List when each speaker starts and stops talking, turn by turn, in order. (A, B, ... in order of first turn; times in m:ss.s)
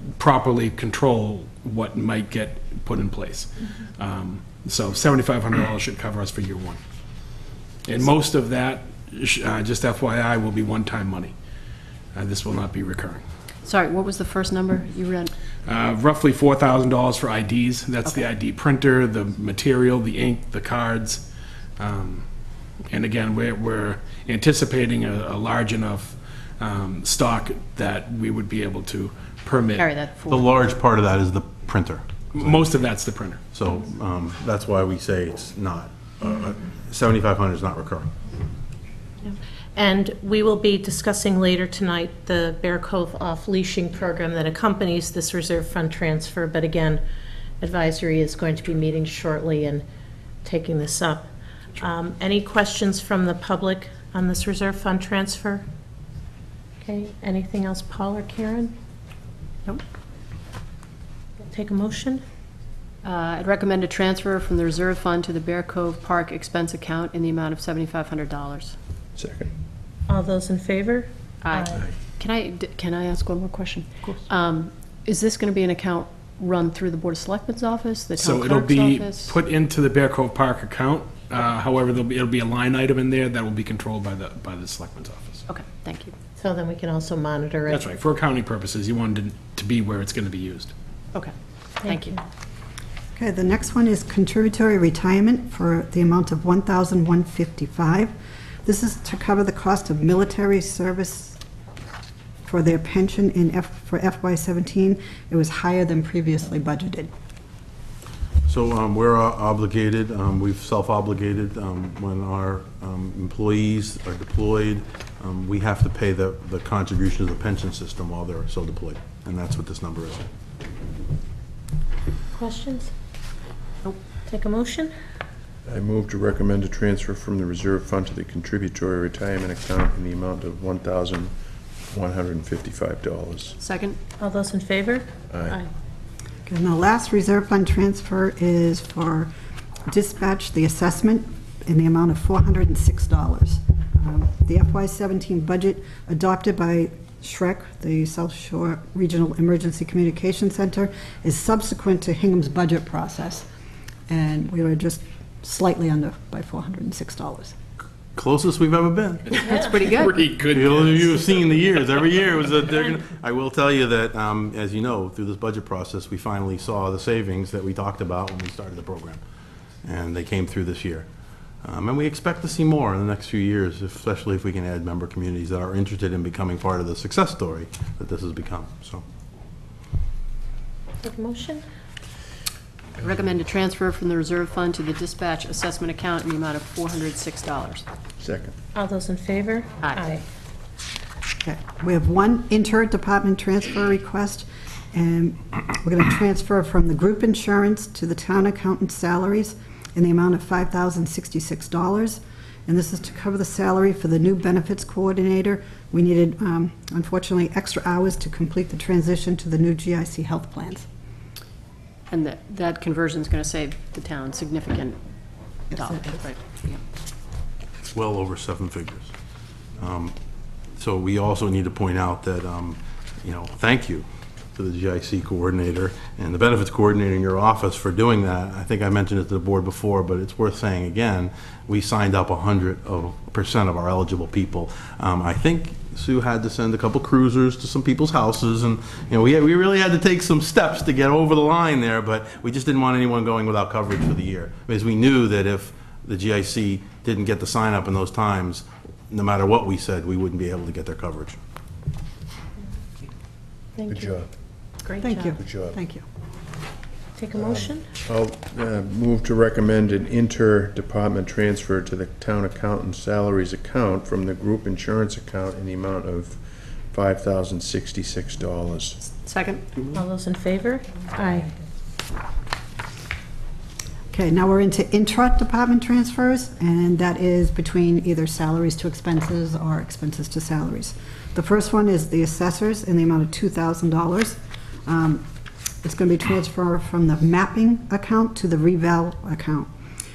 0:00.2-0:06.8 A
0:07.9-0:11.4 A
0:12.1-0:13.2 A
0:13.6-0:15.3 B
0:15.7-0:21.2 A
0:21.8-0:22.3 A
0:22.9-0:29.9 A
0:29.8-0:30.5 B
0:30.3-0:32.7 C
0:32.3-0:33.4 A
0:33.5-0:38.1 C
0:39.8-0:47.0 D
0:47.6-0:49.8 D
0:50.4-0:55.6 D
0:56.8-0:58.8 D
1:01.5-1:02.2 D
1:03.0-1:08.8 B
1:09.2-1:09.5 E
1:10.1-1:11.8 D
1:11.4-1:19.3 B
1:18.2-1:25.5 A
1:25.5-1:26.1 B
1:26.4-1:27.9 D
1:27.7-1:30.7 A
1:31.1-1:32.2 B
1:31.8-1:32.2 D
1:33.2-1:38.1 F
1:38.6-1:41.4 F
1:42.4-1:47.1 F
1:48.5-2:00.2 C
2:02.3-2:02.9 D
2:04.3-2:04.9 D
2:05.7-2:11.3 E
2:11.9-2:13.6 E
2:13.6-2:14.0 B
2:14.2-2:15.7 D
2:15.3-2:15.6 E
2:16.5-2:19.3 F
2:19.9-2:33.5 F
2:34.1-2:37.6 F
2:38.2-2:39.4 C
2:39.3-2:40.3 B
2:39.9-2:41.3 A
2:40.5-2:49.2 C
2:49.8-2:51.1 C
2:51.6-2:59.0 C
3:01.0-3:01.6 D
3:03.0-3:07.9 B
3:08.2-3:08.6 E
3:08.8-3:10.2 D
3:09.8-3:10.1 B
3:11.4-3:30.9 F
3:32.1-3:35.0 B
3:35.7-3:36.2 F
3:35.7-3:36.8 B
3:37.9-3:39.1 C
3:39.8-3:40.1 C
3:40.8-4:11.4 C
4:13.8-4:14.1 D
4:13.9-4:14.3 E
4:14.8-4:15.3 B
4:15.0-4:16.0 F
4:15.4-4:15.8 E
4:17.2-4:17.9 D
4:17.3-4:29.0 E
4:29.2-4:29.7 B
4:29.9-4:31.5 D
4:34.1-4:45.2 F
4:45.8-4:49.7 F